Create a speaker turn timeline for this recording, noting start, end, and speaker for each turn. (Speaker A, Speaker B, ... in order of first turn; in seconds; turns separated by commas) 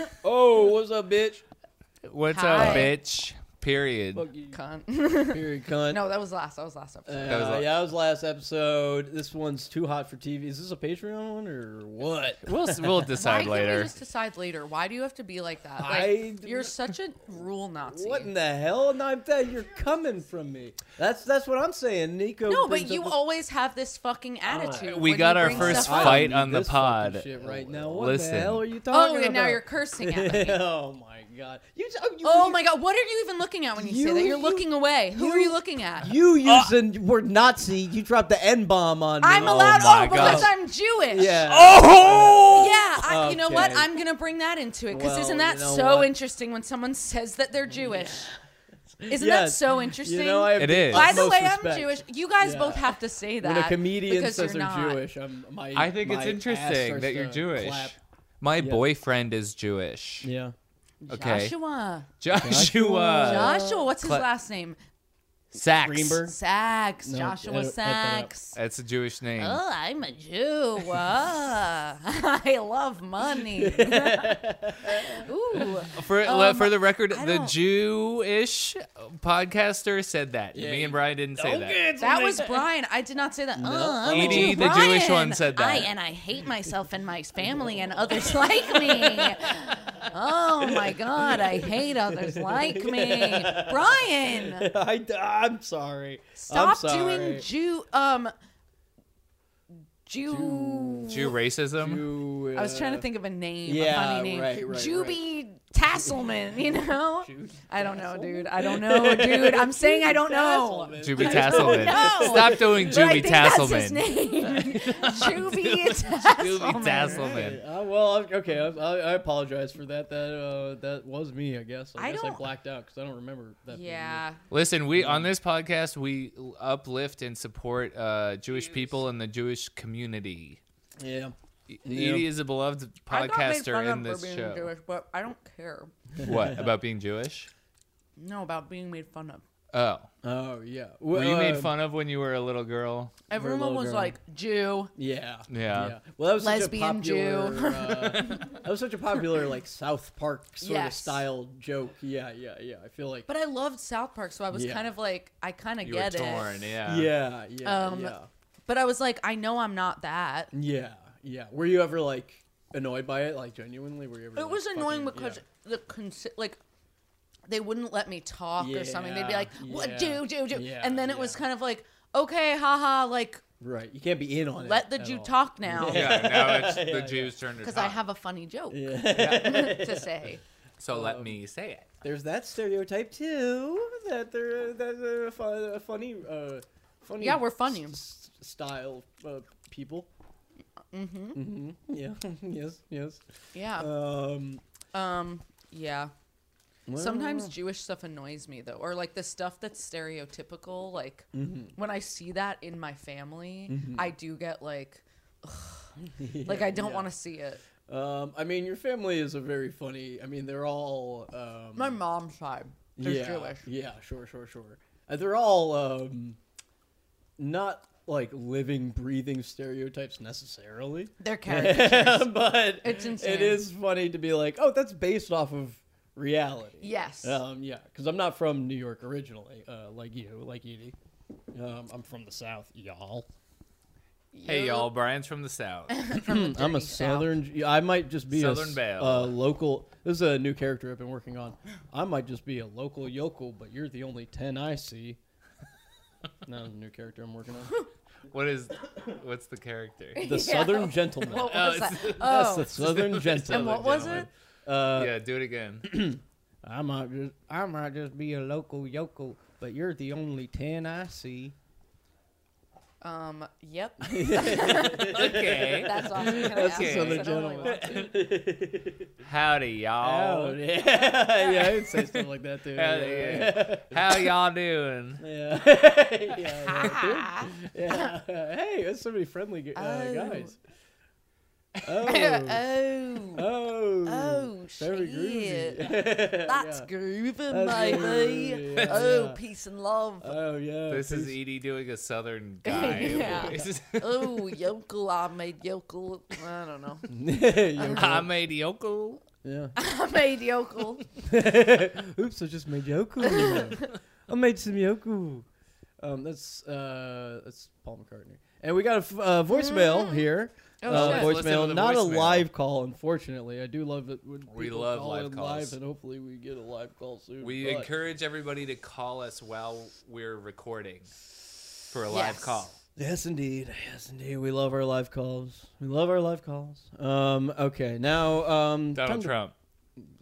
Speaker A: 0.2-1.4, Speaker B: 2.0-4.3, Speaker C: 2.3-3.0, Speaker A: 2.5-2.9, Speaker A: 4.1-4.6, Speaker C: 4.5-7.6, Speaker A: 5.3-6.0, Speaker A: 7.0-13.1, Speaker B: 7.3-7.7, Speaker B: 12.4-13.9, Speaker C: 13.2-18.3, Speaker A: 15.8-16.7, Speaker A: 17.9-23.1, Speaker C: 22.5-26.2, Speaker A: 24.5-32.6, Speaker B: 24.6-28.6, Speaker C: 28.9-30.6, Speaker C: 32.2-36.1, Speaker A: 33.8-40.5, Speaker C: 39.2-41.5, Speaker B: 39.4-40.5, Speaker A: 41.1-43.9, Speaker B: 41.5-42.7, Speaker C: 42.5-48.3, Speaker A: 44.9-46.1, Speaker A: 47.7-48.4, Speaker A: 49.0-57.9, Speaker C: 49.1-55.0, Speaker B: 50.5-51.3, Speaker B: 55.7-60.3, Speaker A: 58.6-58.8, Speaker A: 60.2-60.5, Speaker C: 61.0-62.1, Speaker B: 61.1-61.5, Speaker B: 62.2-64.2, Speaker A: 62.3-63.9, Speaker C: 63.2-64.8, Speaker B: 65.5-66.2, Speaker A: 65.8-66.3, Speaker C: 66.2-68.6, Speaker A: 67.0-68.3, Speaker B: 68.5-69.6, Speaker C: 69.4-74.4, Speaker A: 73.5-75.3, Speaker C: 75.1-77.5, Speaker B: 75.9-81.8, Speaker A: 80.5-82.7, Speaker C: 82.0-94.7, Speaker A: 83.5-84.9, Speaker B: 84.1-85.9, Speaker A: 87.4-89.9, Speaker A: 90.6-97.5, Speaker C: 96.4-98.3, Speaker C: 100.0-101.3, Speaker A: 100.3-103.1, Speaker B: 101.1-102.0, Speaker C: 102.5-117.4, Speaker A: 103.6-105.2, Speaker A: 105.9-113.4, Speaker B: 111.0-117.6, Speaker A: 117.0-124.2, Speaker C: 122.0-122.4, Speaker C: 123.7-124.4, Speaker B: 124.5-130.6, Speaker A: 124.9-125.3, Speaker A: 131.0-132.3, Speaker B: 131.7-134.7, Speaker C: 133.1-135.9, Speaker A: 136.2-136.7, Speaker B: 136.2-137.5, Speaker C: 138.2-139.4, Speaker B: 139.7-140.1, Speaker A: 140.2-141.7, Speaker B: 141.1-143.1, Speaker C: 143.3-144.9, Speaker A: 143.3-144.2, Speaker A: 144.9-153.3, Speaker B: 145.5-145.9, Speaker C: 146.3-148.6, Speaker C: 150.6-151.2, Speaker C: 153.3-156.6, Speaker A: 154.5-154.9, Speaker B: 155.8-157.1, Speaker A: 156.8-158.3, Speaker C: 157.6-158.2, Speaker C: 158.7-160.5, Speaker A: 160.5-165.4, Speaker C: 164.3-166.6, Speaker C: 167.5-173.4, Speaker A: 168.6-171.4, Speaker A: 173.6-177.3, Speaker C: 174.6-176.2, Speaker B: 175.8-178.0, Speaker C: 177.6-180.4, Speaker A: 178.7-180.3, Speaker B: 179.2-179.5, Speaker B: 180.8-181.9, Speaker A: 180.9-181.3, Speaker A: 182.0-190.1, Speaker C: 187.2-188.0, Speaker C: 190.9-191.4, Speaker A: 191.3-194.6, Speaker C: 193.5-193.9, Speaker C: 194.9-196.1, Speaker A: 196.9-197.5, Speaker C: 196.9-207.6, Speaker A: 201.3-201.7, Speaker A: 203.7-204.1, Speaker A: 206.0-207.1, Speaker A: 207.9-212.0, Speaker C: 211.8-213.7, Speaker A: 213.0-216.4, Speaker A: 217.4-230.9, Speaker C: 221.2-223.6, Speaker C: 226.8-227.4, Speaker A: 231.5-233.3, Speaker C: 234.3-234.9, Speaker B: 234.4-236.0, Speaker C: 235.9-237.3, Speaker A: 236.2-245.2, Speaker B: 238.3-239.3, Speaker A: 246.4-247.7, Speaker B: 248.3-250.2, Speaker C: 250.2-252.9, Speaker A: 250.2-255.1, Speaker B: 251.3-254.3, Speaker C: 253.5-254.3, Speaker B: 254.9-255.9, Speaker A: 255.8-261.5, Speaker C: 263.0-268.1, Speaker A: 264.0-269.1, Speaker B: 265.0-268.0, Speaker B: 269.2-270.6, Speaker A: 270.0-274.3, Speaker B: 272.7-275.2, Speaker A: 275.2-280.6, Speaker C: 276.6-278.1, Speaker C: 279.7-280.5, Speaker A: 281.8-282.6, Speaker C: 282.0-283.4, Speaker A: 283.3-286.9, Speaker C: 284.0-290.4, Speaker A: 287.5-289.4, Speaker B: 288.7-289.0, Speaker A: 290.2-291.3, Speaker B: 290.9-294.4, Speaker C: 292.6-297.1, Speaker A: 292.8-293.7, Speaker A: 297.1-298.3, Speaker C: 297.8-298.0, Speaker B: 297.9-299.2, Speaker A: 299.4-299.7, Speaker C: 299.8-301.0, Speaker A: 301.2-305.4, Speaker C: 303.2-303.9, Speaker A: 306.0-317.9, Speaker C: 309.5-310.2, Speaker C: 310.8-311.3, Speaker B: 310.9-312.5, Speaker B: 314.5-315.8, Speaker B: 317.4-321.1, Speaker B: 321.9-322.8, Speaker C: 322.1-322.6, Speaker A: 322.9-329.3, Speaker B: 328.9-329.5